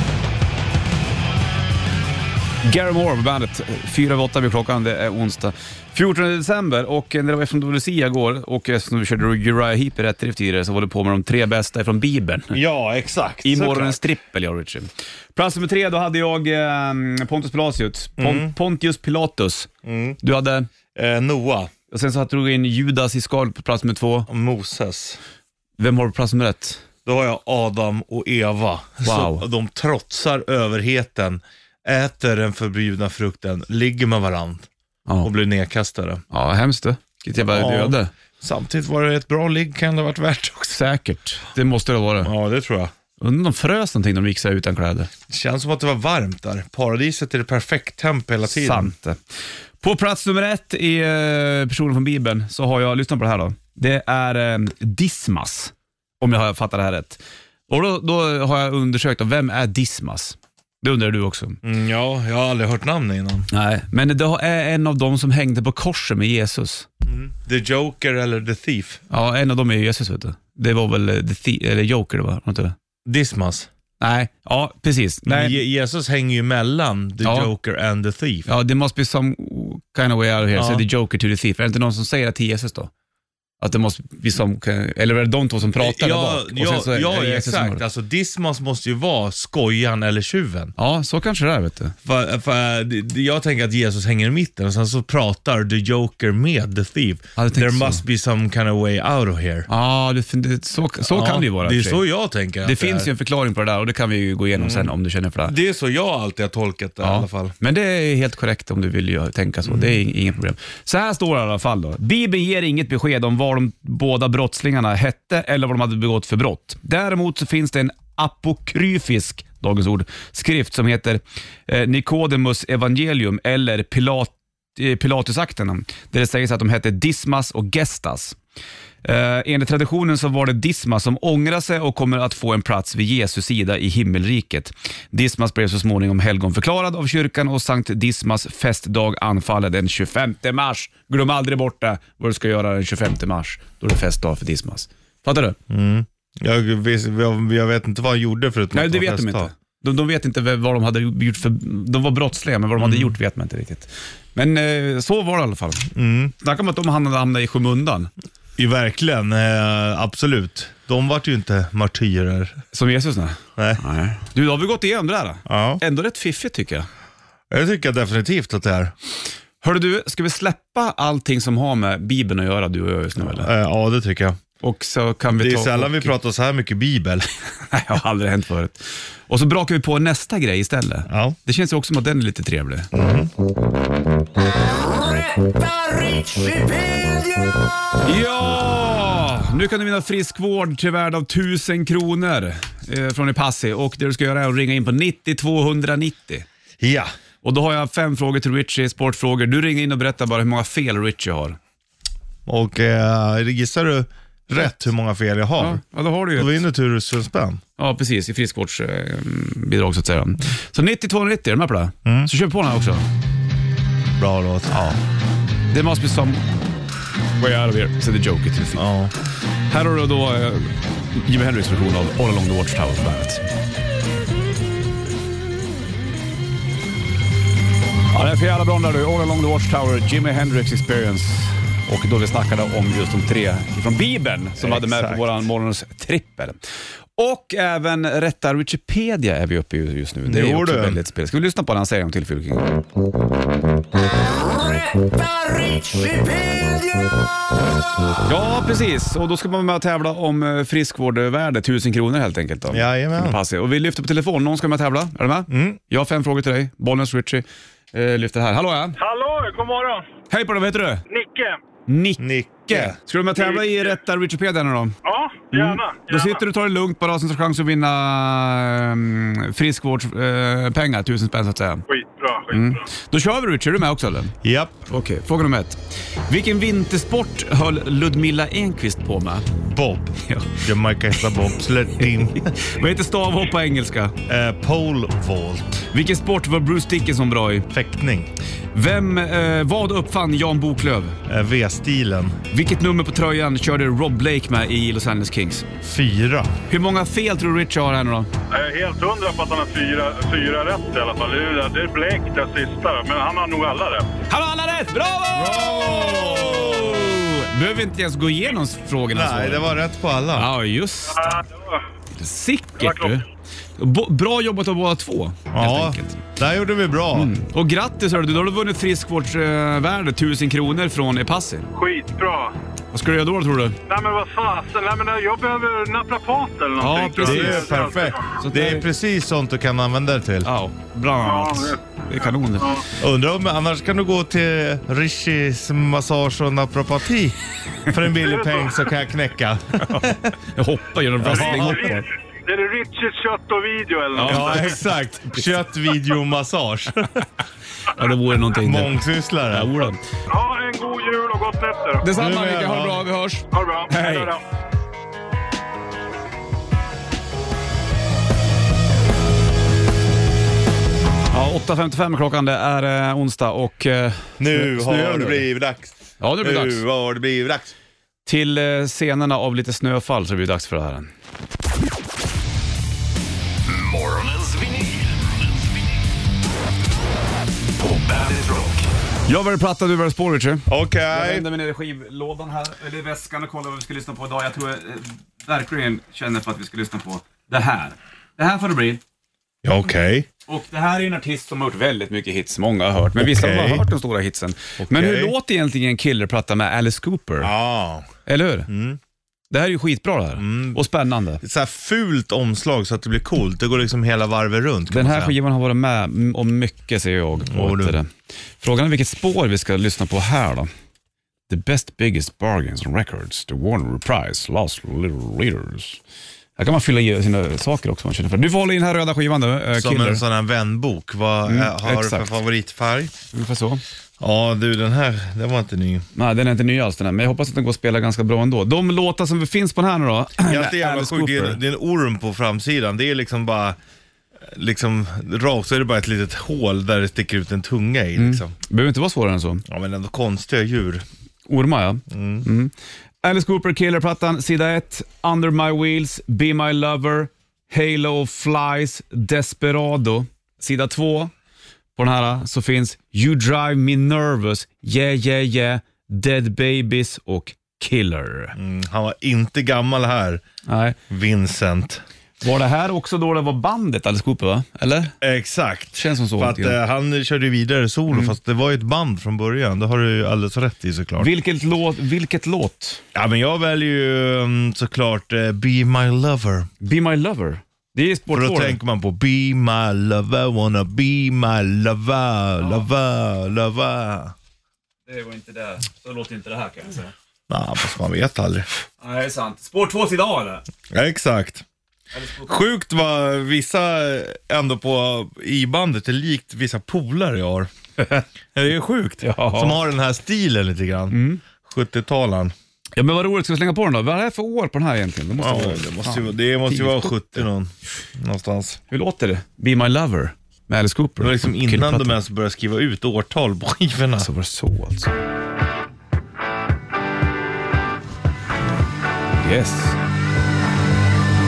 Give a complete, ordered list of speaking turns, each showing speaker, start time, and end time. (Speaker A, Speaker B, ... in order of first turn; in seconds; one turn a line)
Speaker A: 2.6-12.6
Speaker B: 12.5-14.0
Speaker A: 13.4-19.7
Speaker B: 18.2-18.5
Speaker B: 19.8-20.2
Speaker A: 20.2-20.7
Speaker B: 20.9-21.7
Speaker A: 21.9-24.3
Speaker B: 24.3-25.2
Speaker A: 25.8-26.8
Speaker B: 27.1-34.7
Speaker A: 29.0-29.4
Speaker B: 35.2-36.2
Speaker A: 36.3-38.1
Speaker B: 37.5-40.9
Speaker A: 40.7-42.3
Speaker B: 42.2-42.9
Speaker A: 43.2-45.1
Speaker B: 45.3-48.9
Speaker A: 48.4-49.2
Speaker A: 49.8-61.6
Speaker B: 61.6-63.5
Speaker A: 63.5-66.9
Speaker B: 67.0-69.0
Speaker A: 69.1-72.8
Speaker B: 73.0-73.7
Speaker A: 74.0-75.6
Speaker B: 75.3-78.5
Speaker A: 77.2-77.5
Speaker A: 78.5-82.9
Speaker B: 80.5-80.8
Speaker A: 83.6-87.8
Speaker B: 85.8-90.7
Speaker A: 90.8-92.0
Speaker B: 92.0-99.7
Speaker A: 97.4-98.0
Speaker A: 99.7-102.0
Speaker B: 101.0-103.1
Speaker A: 102.6-105.5
Speaker B: 104.5-104.9
Speaker B: 105.4-107.6
Speaker A: 107.0-128.4
Speaker B: 109.7-110.0
Speaker A: 129.0-145.6
Speaker B: 145.7-149.5
Speaker A: 148.7-155.9
Speaker B: 152.8-153.2
Speaker B: 155.9-156.3
Speaker A: 156.4-158.1
Speaker B: 158.6-162.6
Speaker A: 162.7-166.9
Speaker B: 163.6-163.8
Speaker B: 165.5-165.8
Speaker B: 167.5-168.9
Speaker A: 169.6-173.5
Speaker B: 173.2-174.4
Speaker A: 174.6-176.2
Speaker B: 175.4-177.3
Speaker A: 177.6-182.9
Speaker B: 181.1-181.4
Speaker B: 182.9-183.3
Speaker C: 184.4-187.7
Speaker A: 188.0-196.5
Speaker B: 196.8-197.1
Speaker A: 197.4-201.6
Speaker B: 202.5-205.8
Speaker A: 205.6-206.6
Speaker B: 206.4-207.6
Speaker A: 207.8-213.0
Speaker B: 212.1-212.3
Speaker B: 214.2-214.9
Speaker A: 214.7-215.0
Speaker A: 215.7-216.4
Speaker A: 217.4-218.8
Speaker B: 218.8-219.1
Speaker A: 219.7-223.4
Speaker A: 228.1-236.6
Speaker B: 234.6-235.5
Speaker A: 237.2-242.7
Speaker B: 240.2-241.0
Speaker C: 244.0-247.2
Speaker A: 248.2-259.0
Speaker B: 252.7-253.4
Speaker B: 255.5-255.8
Speaker D: 259.0-260.1
Speaker A: 260.3-261.0
Speaker D: 261.1-261.6
Speaker A: 261.9-265.0
Speaker B: 262.2-263.0
Speaker D: 263.4-263.9
Speaker D: 265.0-266.4
Speaker A: 265.5-271.8
Speaker D: 271.9-272.8
Speaker A: 272.5-274.4
Speaker B: 274.4-274.9
Speaker A: 274.9-279.5
Speaker B: 279.7-282.5
Speaker A: 280.2-280.6
Speaker A: 282.0-284.2
Speaker B: 284.3-285.9
Speaker A: 285.9-287.7
Speaker B: 287.7-288.3
Speaker A: 288.7-291.2
Speaker B: 291.3-292.4
Speaker A: 292.5-295.7
Speaker B: 295.8-296.5
Speaker A: 296.7-298.3
Speaker D: 298.5-304.2
Speaker A: 304.3-309.7
Speaker B: 305.3-307.2
Speaker B: 309.1-310.5
Speaker A: 310.4-311.4
Speaker D: 311.1-311.8
Speaker A: 312.1-313.3
Speaker D: 312.8-313.2
Speaker A: 313.8-316.2
Speaker B: 315.5-317.3
Speaker A: 317.1-321.7
Speaker D: 321.7-322.6
Speaker A: 322.9-323.8
Speaker D: 323.9-328.3
Speaker A: 326.8-328.9
Speaker B: 327.2-330.5
Speaker A: 330.4-332.8
Speaker D: 331.2-332.9
Speaker B: 333.0-340.4
Speaker D: 338.2-338.8
Speaker A: 339.9-342.1
Speaker B: 341.2-342.0
Speaker D: 341.2-344.8
Speaker A: 344.1-344.8
Speaker B: 344.2-347.3
Speaker A: 347.9-350.0
Speaker B: 348.5-349.7
Speaker D: 350.3-352.1
Speaker A: 352.0-354.3
Speaker B: 352.1-353.1
Speaker D: 353.5-354.4
Speaker A: 361.3-365.5
Speaker B: 364.4-367.7
Speaker A: 366.2-366.8
Speaker A: 368.2-371.1
Speaker C: 373.6-375.9
Speaker C: 377.8-378.9
Speaker A: 379.3-389.0
Speaker B: 380.7-381.5
Speaker B: 389.6-390.3
Speaker A: 390.5-397.5
Speaker B: 393.2-393.9
Speaker B: 394.8-395.3
Speaker B: 397.4-398.1
Speaker A: 398.3-398.7
Speaker B: 398.7-399.0
Speaker A: 399.5-401.4
Speaker B: 400.4-400.8
Speaker B: 401.4-405.4
Speaker A: 404.9-410.7
Speaker B: 407.5-408.0
Speaker A: 411.5-416.0
Speaker A: 416.6-420.2
Speaker B: 419.8-423.1
Speaker A: 421.4-422.3
Speaker A: 423.3-423.8
Speaker B: 424.2-426.1
Speaker A: 426.1-431.6
Speaker B: 430.4-433.8
Speaker B: 434.5-438.5
Speaker A: 438.2-439.6
Speaker B: 439.7-441.1
Speaker A: 441.5-451.3
Speaker B: 442.1-442.5
Speaker A: 452.0-458.6
Speaker B: 458.6-460.4
Speaker A: 460.7-461.0
Speaker B: 461.1-462.0
Speaker A: 462.4-465.1
Speaker B: 465.2-471.3
Speaker A: 465.9-466.8
Speaker A: 471.2-473.0
Speaker B: 473.1-476.7
Speaker A: 476.8-478.8
Speaker B: 478.3-484.4
Speaker A: 485.1-487.1
Speaker B: 487.5-488.7
Speaker A: 489.0-490.7
Speaker B: 490.9-491.6
Speaker A: 492.1-492.6
Speaker B: 492.4-497.7
Speaker B: 498.5-502.5
Speaker A: 499.2-499.8
Speaker A: 501.1-501.4
Speaker A: 503.0-507.4
Speaker B: 505.4-508.8
Speaker A: 508.9-512.2
Speaker B: 511.2-514.3
Speaker A: 514.2-515.1
Speaker A: 519.4-520.0